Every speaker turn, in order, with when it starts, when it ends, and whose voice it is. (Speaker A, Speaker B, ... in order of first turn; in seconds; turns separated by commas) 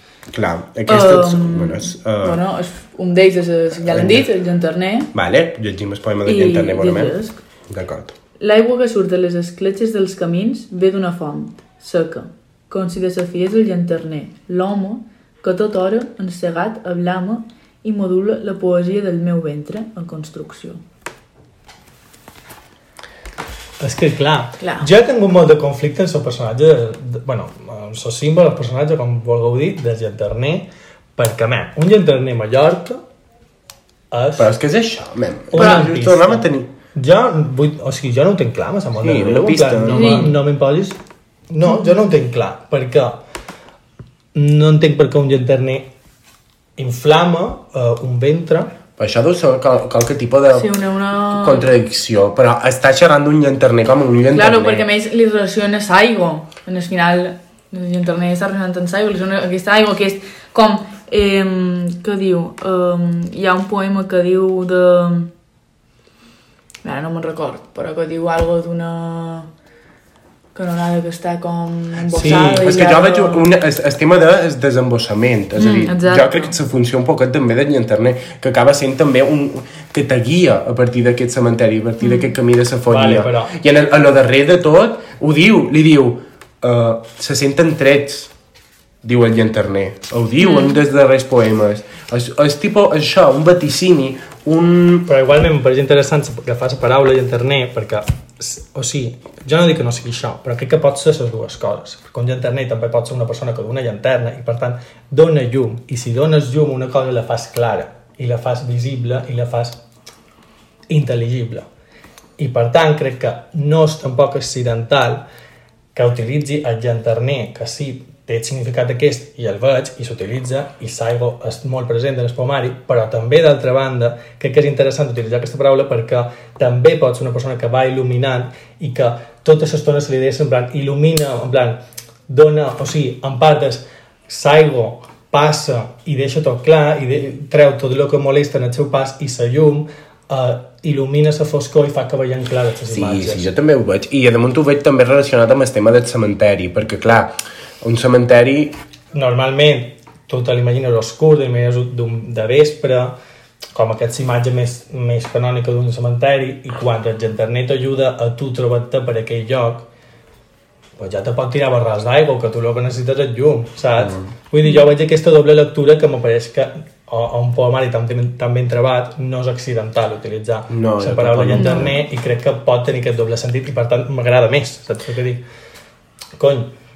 Speaker A: 0.3-2.4, Speaker B: 0.9-5.1, Speaker A: 3.8-4.3, Speaker A: 5.1-7.2, Speaker B: 6.2-7.4, Speaker A: 7.7-8.1, Speaker B: 8.4-20.8, Speaker C: 23.8-33.0, Speaker B: 24.6-24.9, Speaker C: 34.1-34.5, Speaker A: 34.4-36.7, Speaker C: 35.5-41.0, Speaker B: 35.6-35.9, Speaker A: 39.0-40.3, Speaker B: 39.9-40.4, Speaker C: 41.5-43.2, Speaker B: 41.7-41.9, Speaker C: 44.4-45.9, Speaker C: 46.8-48.7, Speaker A: 49.0-50.7, Speaker B: 50.5-51.7, Speaker A: 51.3-54.9, Speaker B: 54.3-65.3, Speaker B: 66.8-69.5, Speaker B: 70.5-73.5, Speaker C: 72.1-72.7, Speaker A: 72.2-88.3, Speaker B: 75.6-76.6, Speaker B: 82.0-82.3, Speaker C: 82.9-83.6, Speaker A: 89.0-95.1, Speaker B: 90.4-90.8, Speaker C: 95.1-109.8, Speaker C: 110.9-111.7, Speaker C: 112.4-115.3, Speaker C: 116.0-143.5, Speaker A: 142.9-148.8, Speaker C: 149.1-153.2, Speaker C: 153.7-159.9, Speaker C: 161.0-175.4, Speaker A: 164.0-164.3, Speaker A: 170.7-171.9, Speaker B: 171.5-171.9, Speaker C: 176.4-176.7